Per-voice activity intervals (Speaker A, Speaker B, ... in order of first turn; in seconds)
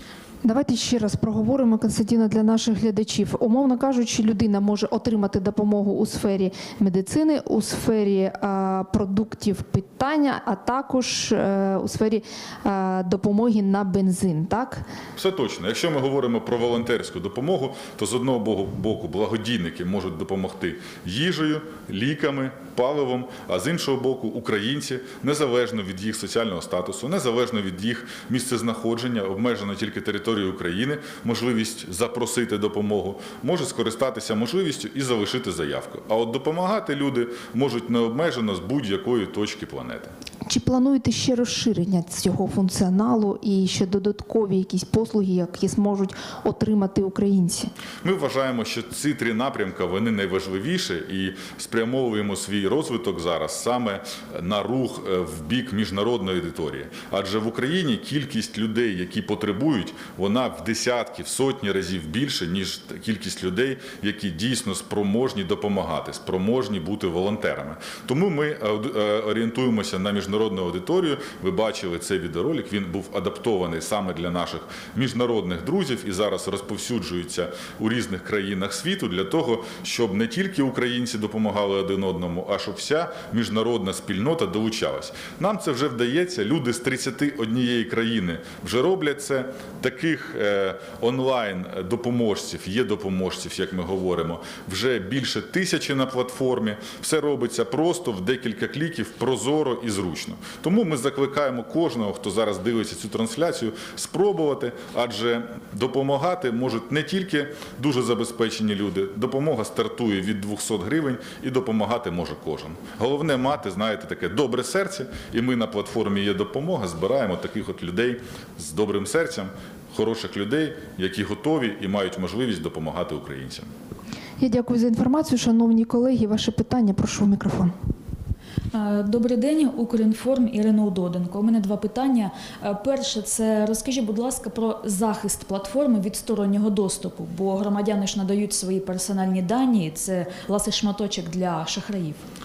Speaker A: 0.4-14.8, 40.5-47.7, 124.4-127.7
Speaker B: 15.2-40.1, 48.0-123.7
Speaker C: 128.7-142.2